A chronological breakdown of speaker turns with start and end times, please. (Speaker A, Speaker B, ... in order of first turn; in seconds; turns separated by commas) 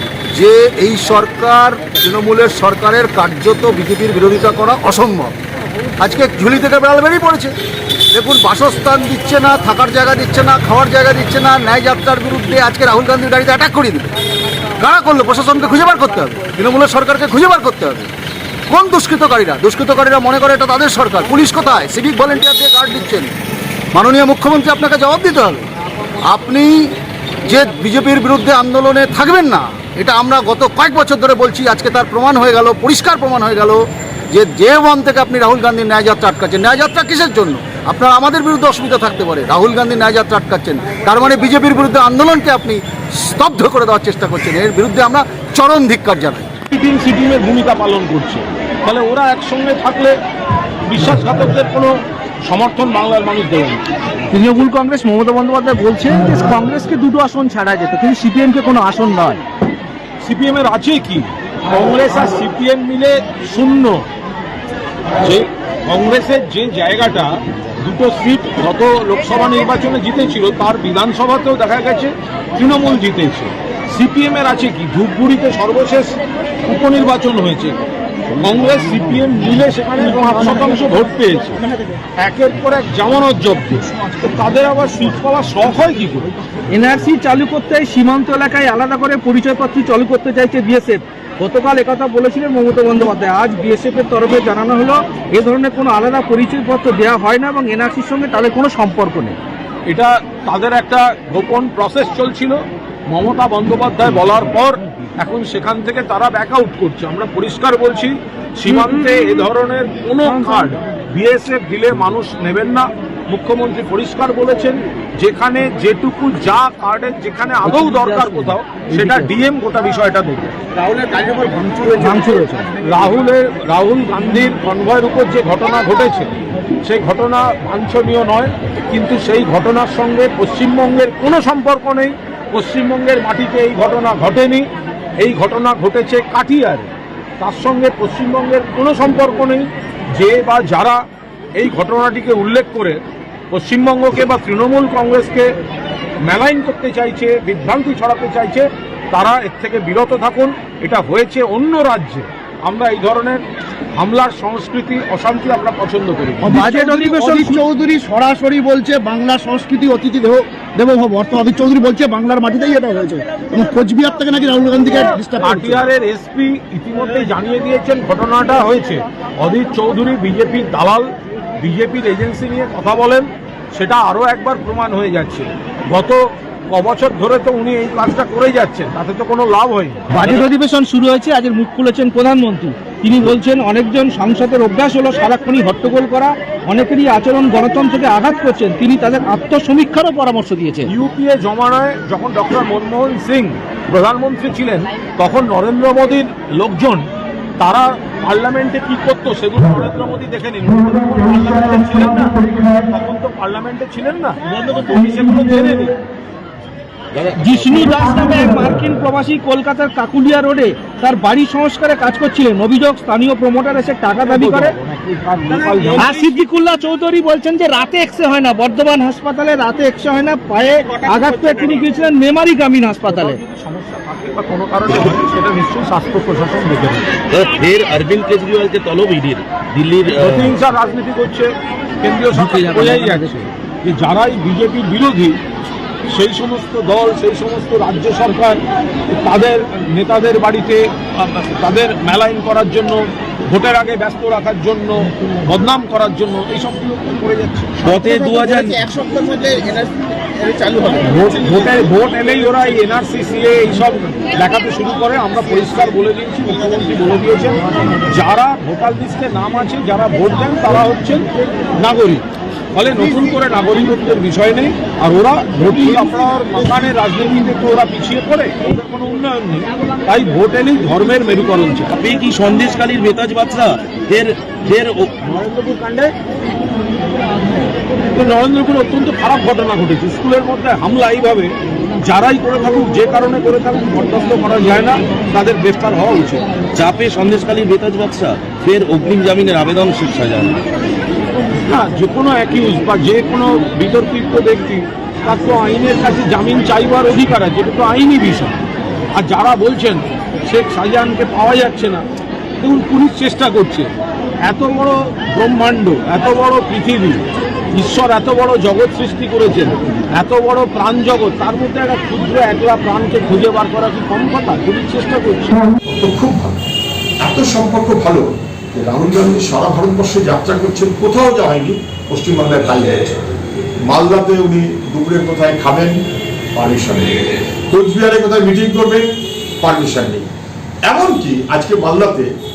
Speaker A: 0.3-5.3, Speaker A: 6.0-7.5, Speaker A: 8.1-14.1, Speaker A: 14.8-18.1, Speaker A: 18.7-23.3, Speaker A: 23.9-25.7, Speaker A: 26.2-26.9, Speaker A: 27.4-46.5, Speaker B: 46.7-50.2, Speaker B: 50.9-53.8, Speaker C: 54.3-59.4, Speaker B: 60.2-64.0, Speaker B: 65.2-77.8, Speaker B: 78.4-81.7, Speaker B: 82.2-86.3, Speaker C: 86.7-99.4, Speaker B: 99.9-120.9, Speaker C: 110.3-110.7, Speaker C: 117.7-119.3, Speaker D: 120.9-121.8, Speaker C: 121.8-122.7, Speaker B: 122.8-141.0, Speaker B: 141.5-143.0, Speaker B: 143.5-145.5, Speaker B: 146.2-153.4, Speaker B: 154.0-156.6, Speaker C: 156.4-157.6, Speaker D: 156.6-165.6, Speaker B: 164.9-180.4, Speaker C: 180.1-190.9, Speaker B: 190.9-206.0, Speaker E: 207.1-208.0, Speaker C: 207.4-214.7, Speaker B: 214.2-216.4, Speaker C: 215.7-223.4, Speaker B: 220.8-221.9, Speaker B: 223.0-227.2, Speaker E: 227.3-230.6, Speaker B: 230.1-235.4, Speaker C: 232.3-233.4, Speaker B: 236.1-247.8, Speaker E: 247.8-249.0, Speaker D: 248.9-251.0, Speaker B: 251.0-261.3, Speaker B: 261.8-271.9, Speaker E: 271.9-275.1, Speaker B: 275.2-276.1, Speaker B: 278.0-286.5, Speaker E: 286.7-290.6, Speaker B: 291.7-298.6, Speaker B: 299.2-302.1, Speaker B: 302.6-303.9, Speaker B: 304.4-315.6, Speaker F: 315.8-316.6, Speaker F: 317.2-323.2, Speaker F: 323.8-326.0, Speaker F: 326.5-329.1, Speaker F: 329.6-330.3, Speaker F: 330.9-332.3